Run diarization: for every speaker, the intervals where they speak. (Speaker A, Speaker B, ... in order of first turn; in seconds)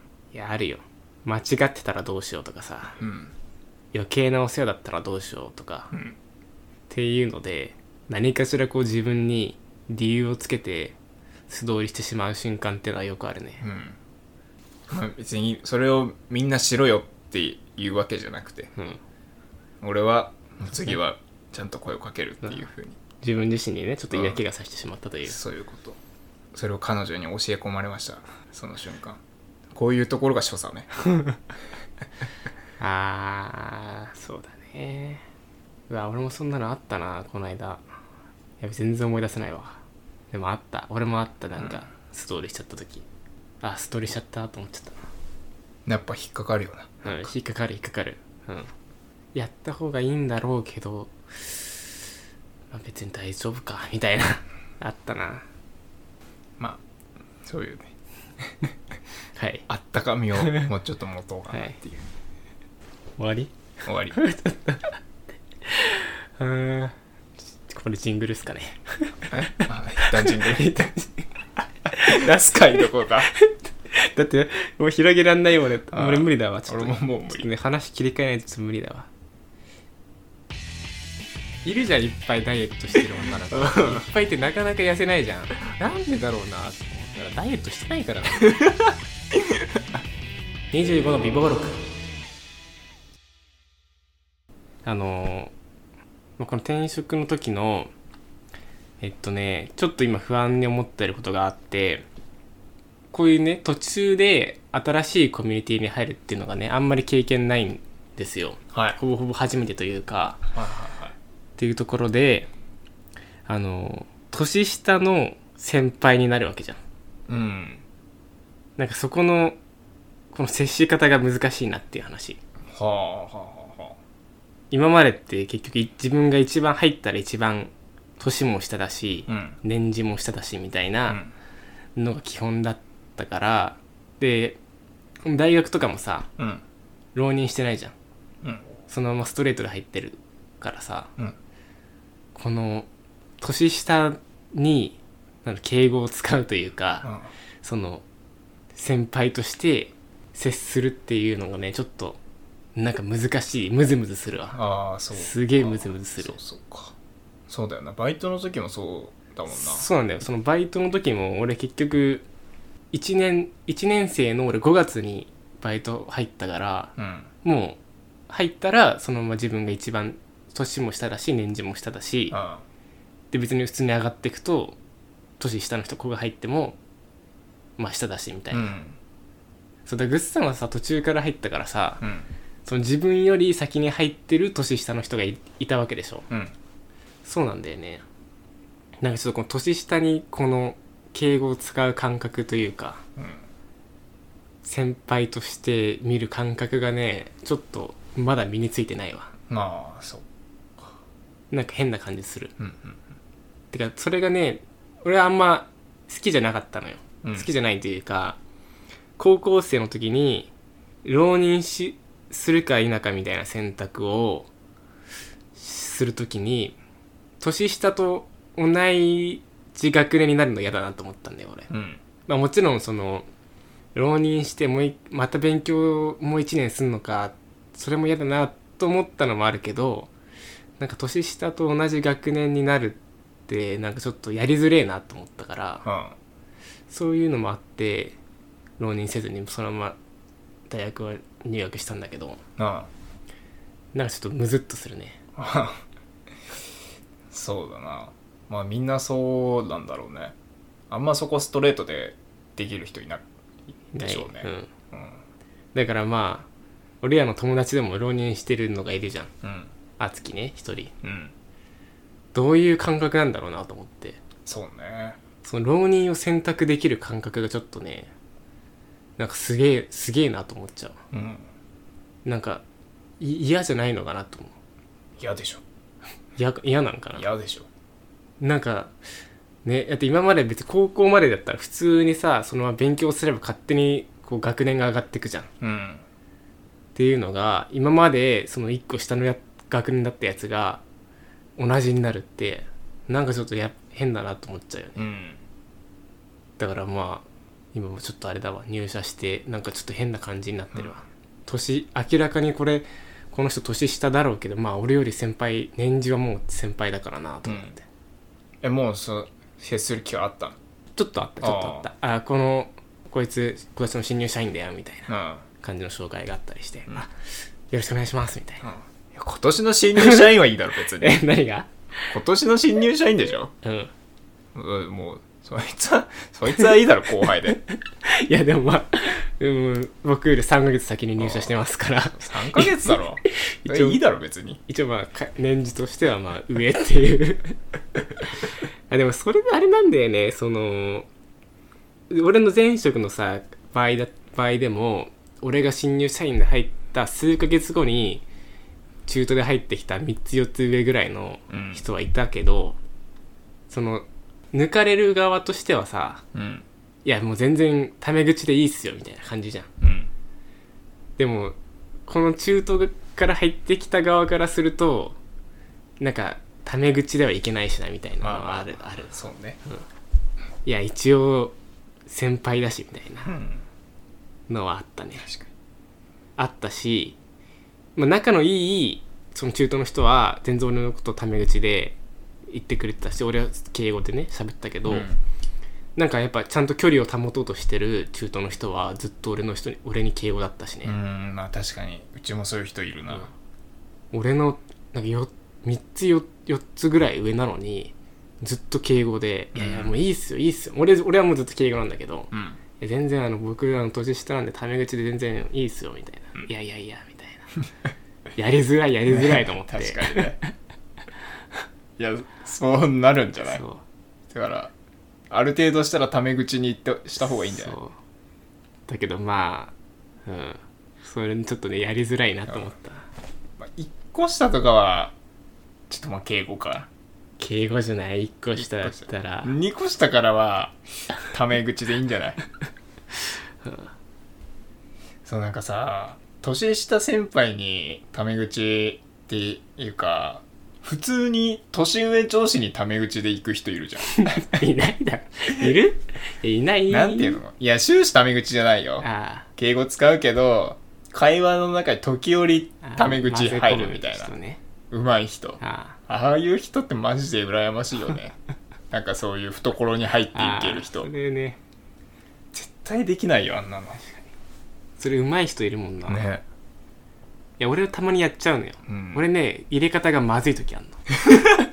Speaker A: 0.3-3.0, 3.9-5.9, 6.9-11.0, 11.5-13.7, 23.2-25.4, 32.8-35.2, 35.9-37.9, 38.6-39.8, 40.3-43.1, 43.6-45.0, 47.0-48.7, 49.3-52.0, 52.7-55.5, 59.4-59.7, 60.4-60.7, 63.2-63.5, 64.1-65.0, 65.6-67.0, 67.6-71.3, 71.8-79.1, 81.6-88.6, 90.7-91.8, 94.8-95.5, 96.4-97.9, 99.0-102.0, 103.1-110.5, 111.6-112.5, 113.5-116.8, 118.8-119.6, 120.3-122.4, 124.7-131.2, 132.0-134.6, 135.2-136.3, 137.2-137.9, 138.9-141.1, 142.3-142.9, 143.4-147.1, 147.6-148.0, 148.7-152.2, 152.8-154.6, 155.1-156.4, 159.5-162.3, 162.9-166.9, 167.4-172.4, 173.3-174.8, 175.4-176.8, 177.8-178.7, 179.9-182.0, 182.7-186.3, 187.2-188.0, 189.0-193.0, 194.6-199.3, 201.5-202.5, 203.7-208.4, 209.2-210.5, 211.0-214.5, 215.6-216.8, 217.4-221.7, 222.3-223.3, 223.9-230.1, 230.8-235.8, 236.9-238.2, 238.8-240.0, 240.7-242.4, 243.9-245.2, 253.9-254.7, 255.7-256.5, 257.0-259.3, 260.0-260.9, 262.3-264.2, 265.4-268.1, 269.2-271.0, 272.2-272.6, 273.2-274.6, 276.4-277.3, 278.4-278.9, 279.6-285.5, 286.9-290.8, 291.6-295.0, 296.6-307.8, 311.0-315.1, 315.6-317.1, 317.7-318.7, 320.0-320.4, 320.9-322.1, 323.6-323.9, 327.2-334.0, 334.7-337.6, 338.2-341.1, 342.1-348.2, 349.1-352.8, 353.7-356.2, 357.1-359.7, 361.2-361.6, 362.1-365.2, 366.0-369.1, 370.6-373.3, 374.5-375.2, 376.4-377.2, 378.0-382.0, 382.5-385.1, 386.0-390.9, 394.1-407.5, 408.4-410.5, 413.4-413.8, 417.2-417.9, 418.9-419.7, 420.3-423.1, 427.4-429.6, 433.6-433.9, 444.1-447.4, 449.0-449.5, 452.8-454.6, 455.6-456.0, 460.3-461.6, 464.0-464.3, 465.0-466.2, 467.6-471.2
Speaker B: 3.0-3.3, 5.9-6.2, 13.6-14.0, 14.9-18.7, 19.8-23.0, 24.1-24.4, 25.3-26.0, 26.5-29.2, 29.7-30.9, 41.6-41.9, 45.9-47.3, 57.4-57.9, 59.7-62.0, 63.8-64.2, 69.3-70.9, 72.0-73.3, 75.9-77.5, 83.5-84.0, 108.7-109.0, 110.5-111.2, 117.3-117.8, 122.7-124.0, 129.3-129.6, 136.4-136.6, 147.0-147.3, 154.5-156.9, 157.5-159.9, 167.0-167.3, 172.3-172.6, 178.5-179.0, 182.0-182.3, 193.2-193.4, 199.5-200.2, 202.6-203.0, 207.2-207.5, 221.7-222.0, 235.8-236.2, 242.6-242.9, 245.4-245.8, 247.3-250.3, 250.9-255.2, 259.4-259.7, 261.0-261.3, 264.5-265.2, 271.1-271.5, 275.2-275.6, 277.1-277.7, 285.6-286.1, 295.0-295.4, 307.4-307.7, 308.6-310.6, 311.4-311.9, 315.1-315.4, 318.6-321.2, 322.1-323.5, 324.5-327.6, 331.2-331.6, 332.1-334.6, 351.5-351.9, 356.3-356.6, 359.8-360.1, 368.2-369.6, 373.2-373.6, 375.2-375.5, 384.9-385.2, 390.8-393.3, 399.5-400.0, 402.3-402.6, 409.1-410.4, 412.0-413.6, 414.3-414.7, 415.3-417.8, 422.5-422.8, 423.6-425.2, 425.9-426.9, 428.6-432.4, 435.2-444.6, 446.9-454.3, 454.9-458.4, 458.9-461.1, 462.5-464.0, 466.1-466.4, 468.9-469.3